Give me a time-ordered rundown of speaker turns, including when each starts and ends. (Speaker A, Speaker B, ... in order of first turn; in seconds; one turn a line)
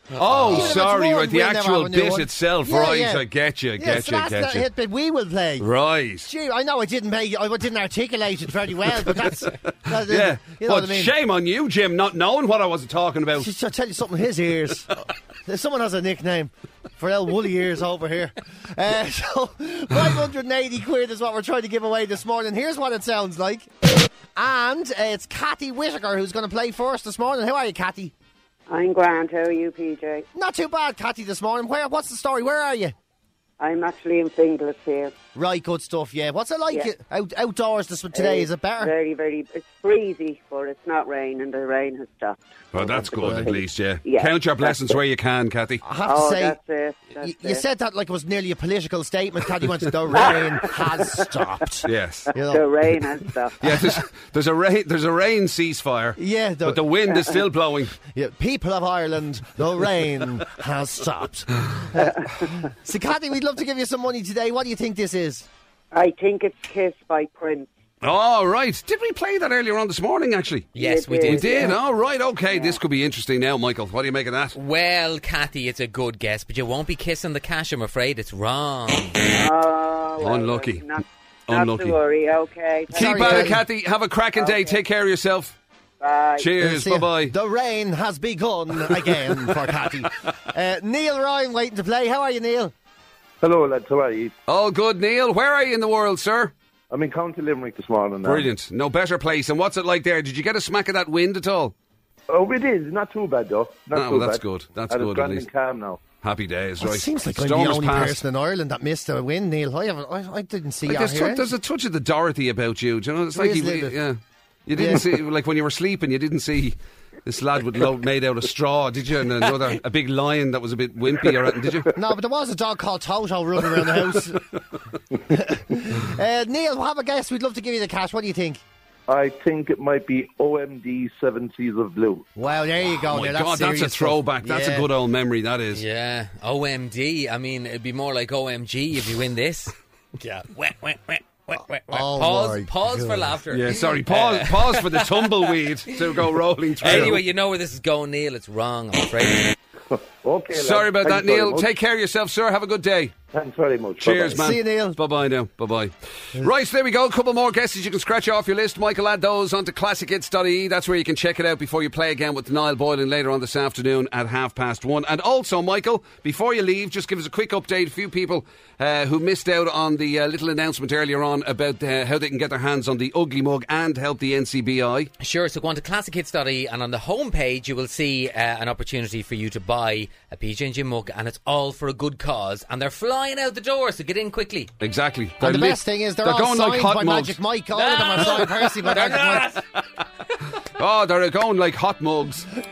Speaker A: 0.2-4.7
Speaker B: 0.2-0.8
Speaker C: 0.4-5.7
Speaker A: 5.6-6.3
Speaker C: 6.3-11.1
Speaker A: 9.8-13.5
Speaker C: 13.4-28.1
Speaker D: 28.7-30.2
Speaker C: 30.4-32.9
Speaker D: 33.6-35.1
Speaker C: 35.4-38.9
Speaker D: 38.1-44.7
Speaker A: 42.7-45.8
Speaker C: 43.2-43.5
Speaker C: 45.8-46.6
Speaker D: 46.1-47.6
Speaker C: 47.2-52.7
Speaker D: 50.1-51.2
Speaker A: 51.9-52.3
Speaker D: 52.4-53.6
Speaker A: 53.6-58.0
Speaker C: 53.6-53.9
Speaker C: 56.2-56.9
Speaker C: 58.1-65.5
Speaker D: 62.0-62.5
Speaker D: 65.9-67.7
Speaker A: 68.0-74.6
Speaker B: 70.8-71.8
Speaker D: 70.8-71.8
Speaker D: 72.5-72.8
Speaker B: 74.5-79.2
Speaker D: 79.3-83.6
Speaker A: 80.2-80.8
Speaker A: 81.5-82.0
Speaker A: 82.9-85.6
Speaker C: 82.9-83.6
Speaker D: 84.4-84.8
Speaker D: 86.0-86.5
Speaker A: 86.4-87.3
Speaker C: 86.6-92.7
Speaker A: 88.9-89.6
Speaker E: 93.4-94.3
Speaker A: 94.5-96.5
Speaker E: 96.9-98.5
Speaker A: 98.2-101.7
Speaker E: 102.3-106.0
Speaker A: 103.9-105.5
Speaker A: 106.2-108.2
Speaker C: 106.8-111.5
Speaker A: 110.9-121.9
Speaker C: 113.3-114.0
Speaker C: 114.8-115.1
Speaker C: 122.0-124.5
Speaker C: 125.3-128.6
Speaker E: 129.1-132.3
Speaker C: 132.4-134.9
Speaker A: 133.0-135.8
Speaker B: 135.7-149.6
Speaker C: 141.9-143.2
Speaker A: 143.5-147.2
Speaker E: 149.9-151.8
Speaker A: 150.6-153.2
Speaker E: 153.3-154.4
Speaker A: 154.0-175.1
Speaker C: 154.3-155.0
Speaker B: 175.2-184.7
Speaker A: 184.8-187.4
Speaker C: 185.4-189.6
Speaker B: 187.7-189.6
Speaker A: 190.6-192.5